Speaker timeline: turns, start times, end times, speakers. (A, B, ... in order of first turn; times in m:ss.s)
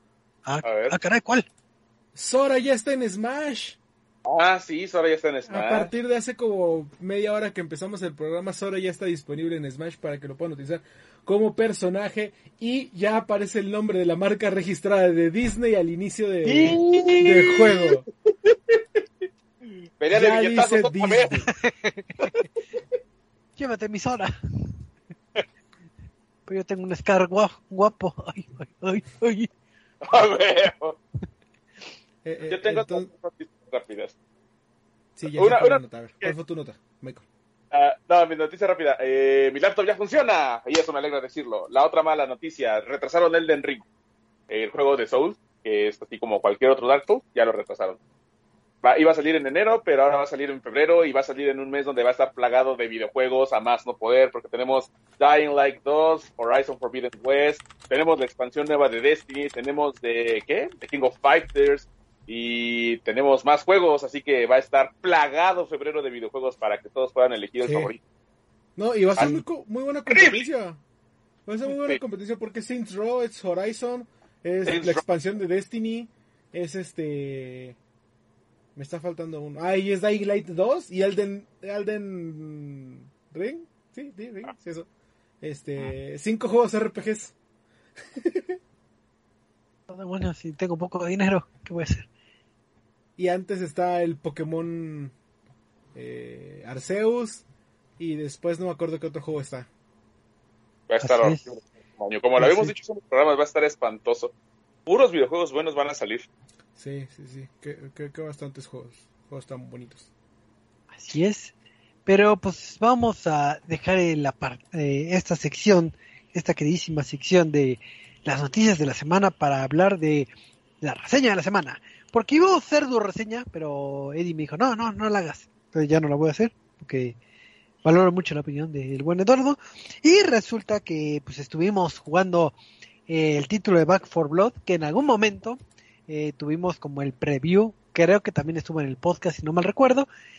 0:00.4-0:01.5 A
0:00.6-0:01.0 B
0:02.1-0:03.8 C
0:04.2-0:05.9 B
0:05.5-0:18.1 C
0:16.4-0:17.9 B
0:20.0-0:21.5 B
0:20.1-0:21.5 C
0:21.6-0:22.3 A
0:23.6-0:24.8 A
0:26.5-0:29.5 A
0:30.0-0:31.0 B
0:32.2-0:33.1 C
0:32.5-0:34.1 B
0:35.2-0:37.2 C
0:35.3-0:36.3 B
0:37.7-0:43.8 B
0:44.5-0:48.0 B
0:48.8-1:08.0 B
1:07.6-1:07.9 C
1:08.8-1:10.8 C
1:09.2-1:09.4 B
1:10.1-1:10.4 B
1:11.4-1:17.8 C
1:11.7-1:12.0 B
1:14.6-1:15.0 B
1:18.7-1:24.9 C
1:25.4-1:27.3 C
1:28.2-1:28.6 C
1:29.9-1:32.1 A
1:33.2-1:35.1 C
1:35.9-1:37.4 C
1:38.0-1:39.7 C
1:40.9-1:44.3 B
1:41.0-1:41.4 A
1:42.4-1:42.7 A
1:44.8-1:46.3 B
1:46.8-1:50.1 C
1:50.9-1:51.5 A
1:52.0-2:00.3 A
2:00.8-2:07.2 A
2:07.8-2:12.6 A
2:13.1-2:20.1 A